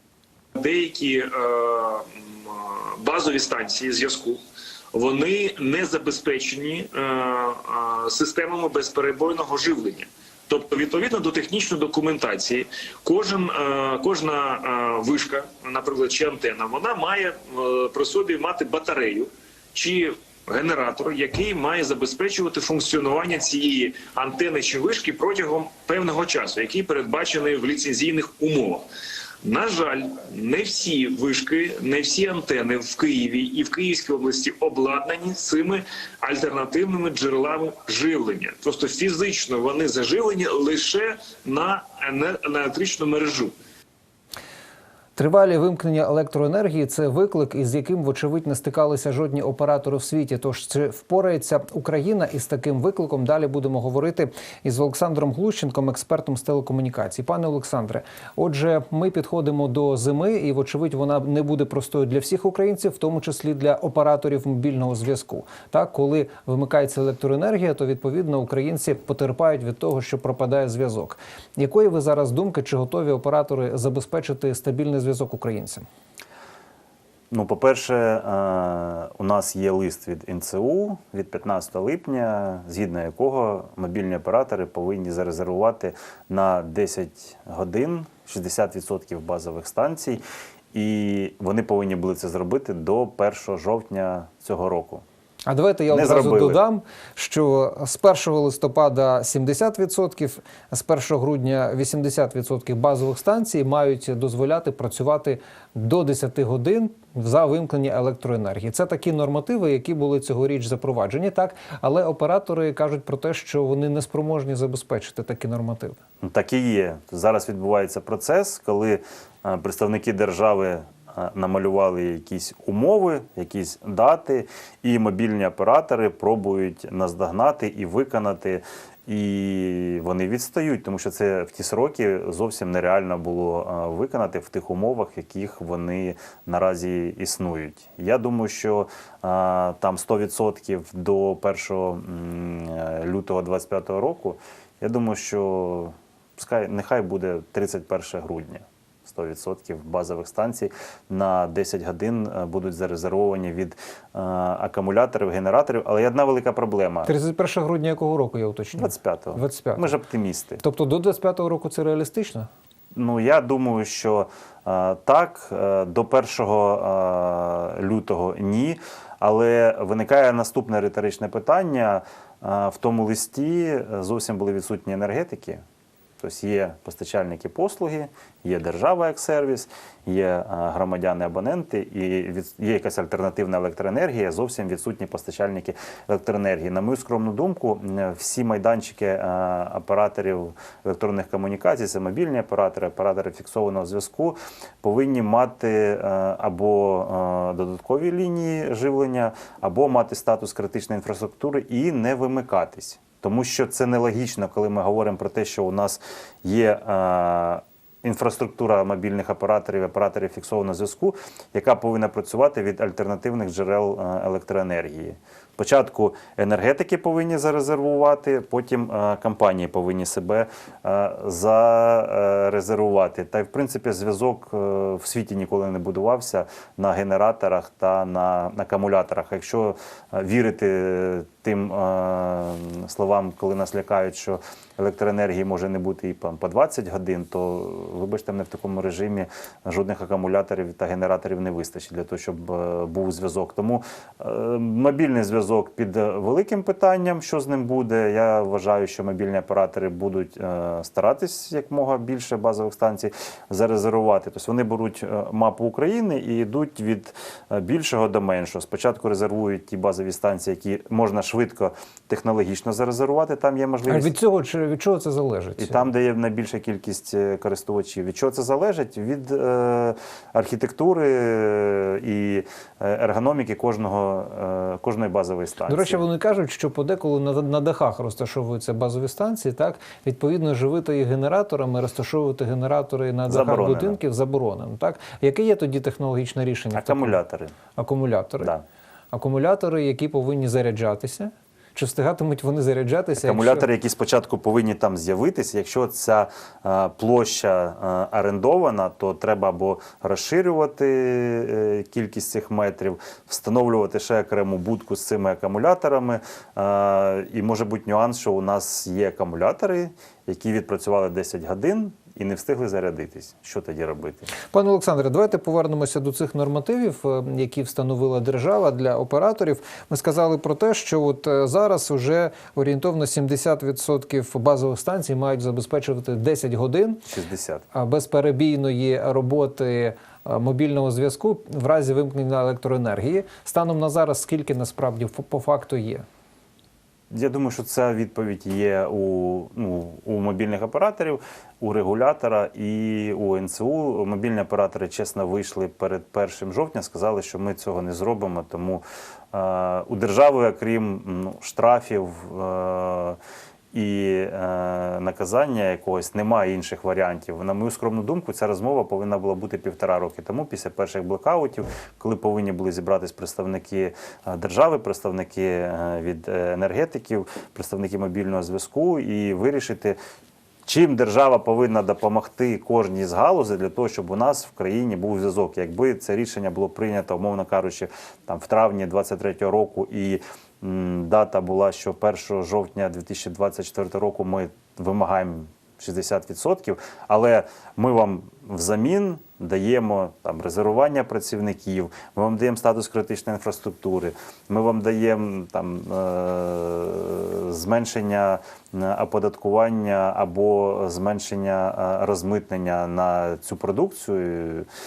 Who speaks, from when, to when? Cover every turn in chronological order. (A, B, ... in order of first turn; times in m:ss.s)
0:00.5-0:04.4 A
0:04.9-0:28.8 A
0:29.4-0:43.5 A
0:45.2-1:15.8 B
1:17.3-1:30.2 C
1:30.7-1:35.0 C
1:35.5-1:56.0 B
1:35.9-1:36.6 C
1:56.2-2:37.1 C
2:37.0-2:39.9 B
2:38.8-2:40.6 C
2:40.6-2:42.5 B
2:42.9-2:55.6 C
2:56.2-4:24.1 C
4:23.9-4:25.8 B
4:25.6-4:36.0 C
4:35.7-4:47.2 B
4:43.3-4:44.0 C
4:46.7-4:47.6 C
4:47.8-4:48.5 B
4:49.1-4:53.7 B
4:53.2-5:14.3 C
5:14.5-5:27.0 B
5:27.1-5:27.6 C
5:27.7-5:36.0 B
5:37.1-5:53.2 C
5:53.7-6:10.0 C
6:10.6-6:44.7 C